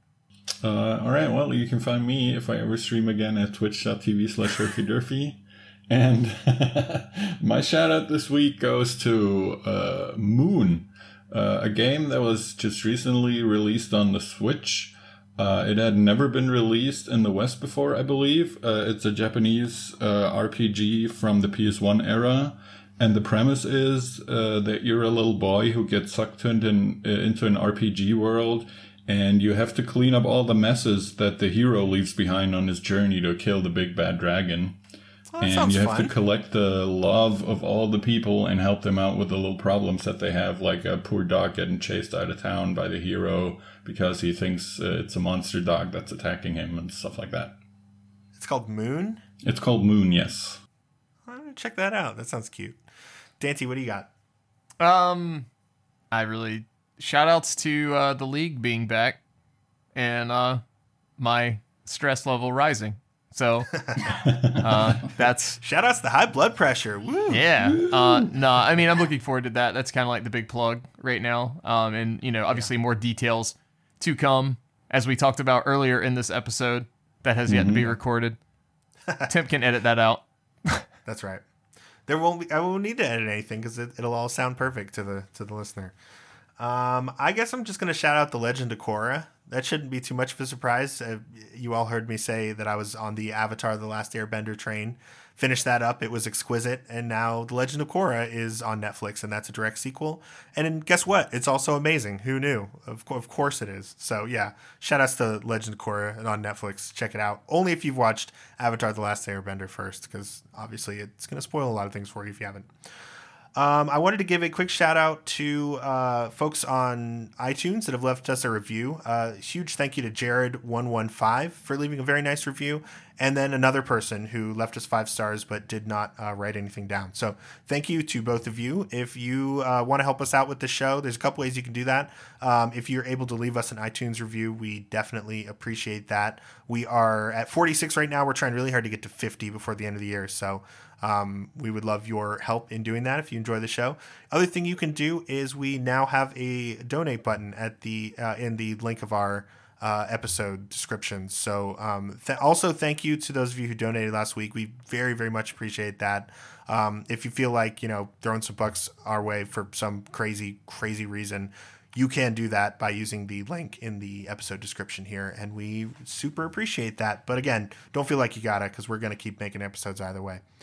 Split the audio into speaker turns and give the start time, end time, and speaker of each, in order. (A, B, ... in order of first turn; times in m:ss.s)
0:00.6-0:34.8 A
0:35.3-0:36.1 B
0:35.4-0:47.6 A
0:48.4-0:49.2 B
0:49.4-0:50.6 A
0:51.3-0:52.8 B
0:53.4-0:54.1 B
0:54.8-0:55.5 C
0:56.1-0:59.2 C
1:00.0-1:00.6 C
1:01.2-1:03.7 C
1:03.8-1:04.2 B
1:04.1-1:04.9 A
1:04.6-1:05.6 C
1:05.6-1:07.4 B
1:07.3-1:18.4 C
1:07.7-1:08.1 A
1:17.5-1:17.8 A
1:19.3-1:20.8 C
1:21.1-1:21.4 B
1:22.1-1:25.9 B
1:26.6-1:52.7 B
1:53.6-2:50.4 B